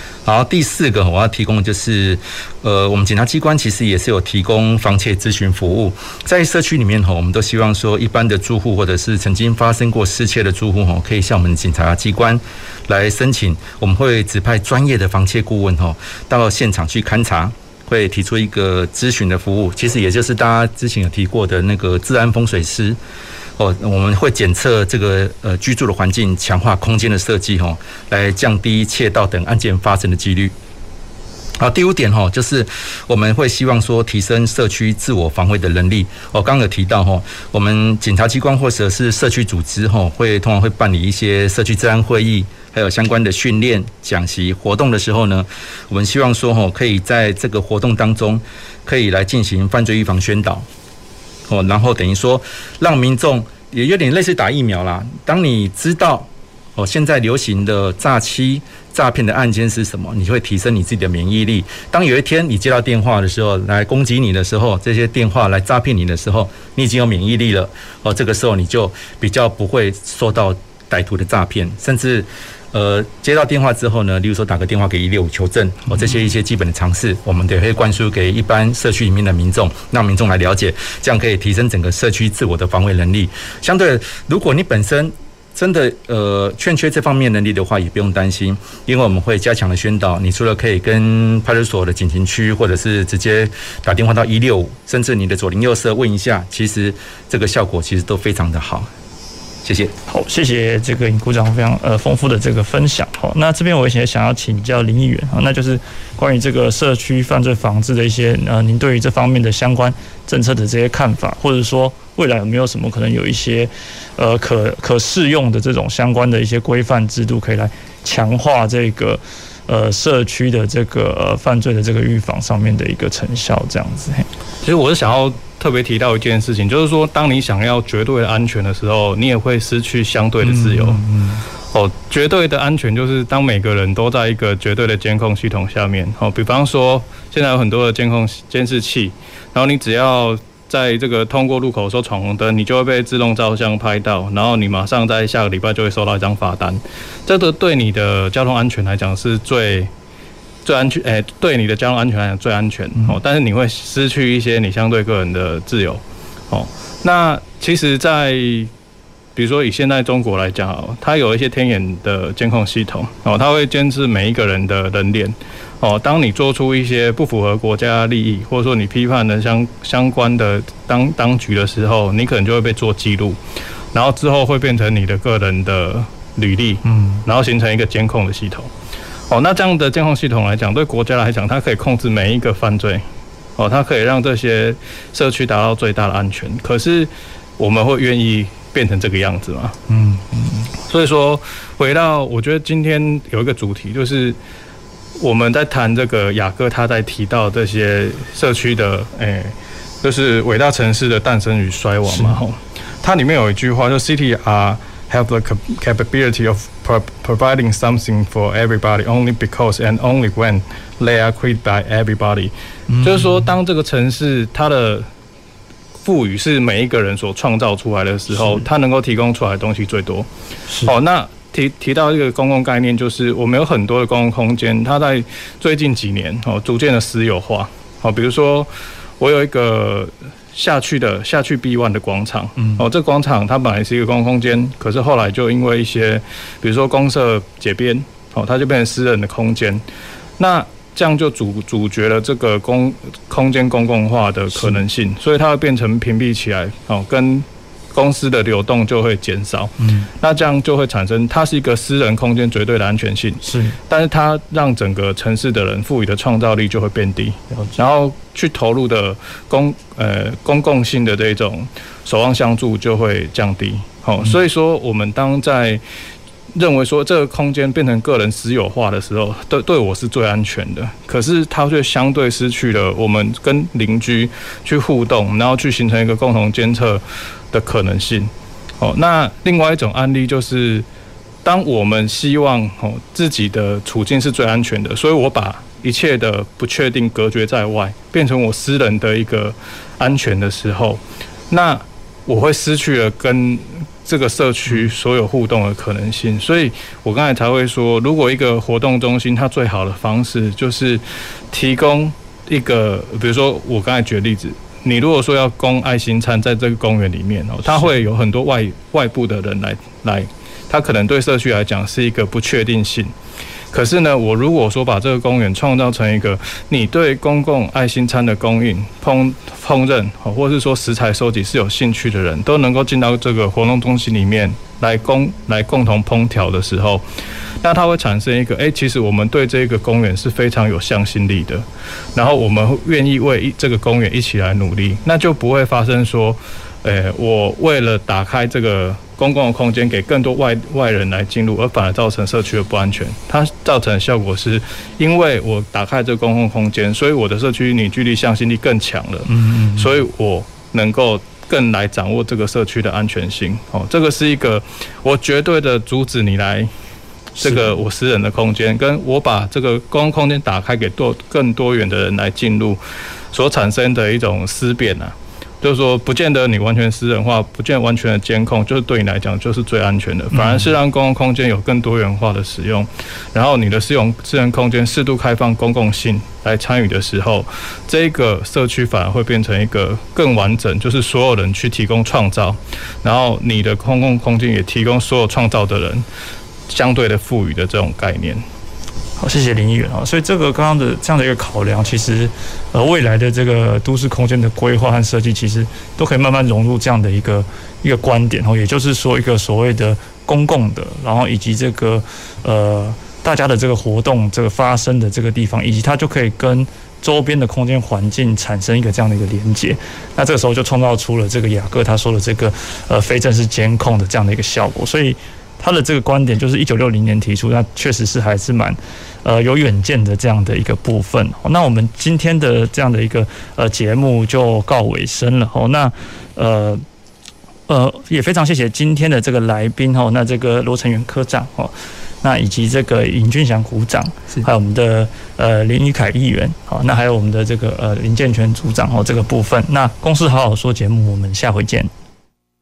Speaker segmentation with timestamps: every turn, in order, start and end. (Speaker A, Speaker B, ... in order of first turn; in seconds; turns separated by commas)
Speaker A: 0.2-23.0, Speaker A: 23.6-30.5, Speaker A: 31.6-50.7, Speaker A: 51.5-98.9, Speaker A: 99.6-99.9, Speaker B: 100.1-124.3, Speaker C: 124.6-131.0, Speaker B: 130.4-131.4, Speaker C: 131.7-149.9, Speaker C: 150.6-158.7, Speaker C: 159.3-173.4, Speaker C: 173.9-178.7, Speaker B: 176.8-177.2, Speaker C: 179.3-183.0, Speaker C: 183.6-189.8, Speaker B: 189.9-190.7, Speaker C: 190.9-194.4, Speaker C: 195.2-215.1, Speaker B: 212.9-213.5, Speaker C: 216.0-220.3, Speaker B: 218.4-218.6, Speaker C: 220.8-239.8, Speaker B: 232.6-232.8, Speaker C: 240.4-265.8, Speaker B: 244.5-244.8, Speaker B: 249.8-250.1, Speaker B: 253.4-253.8, Speaker B: 257.5-257.8, Speaker C: 266.5-280.9, Speaker C: 281.4-313.1, Speaker C: 313.7-327.0, Speaker C: 327.6-356.7, Speaker B: 349.3-349.9, Speaker C: 357.4-362.8, Speaker B: 357.4-357.7, Speaker C: 363.3-386.0, Speaker B: 370.3-370.7, Speaker C: 386.7-388.4, Speaker B: 389.2-426.8, Speaker B: 427.7-441.9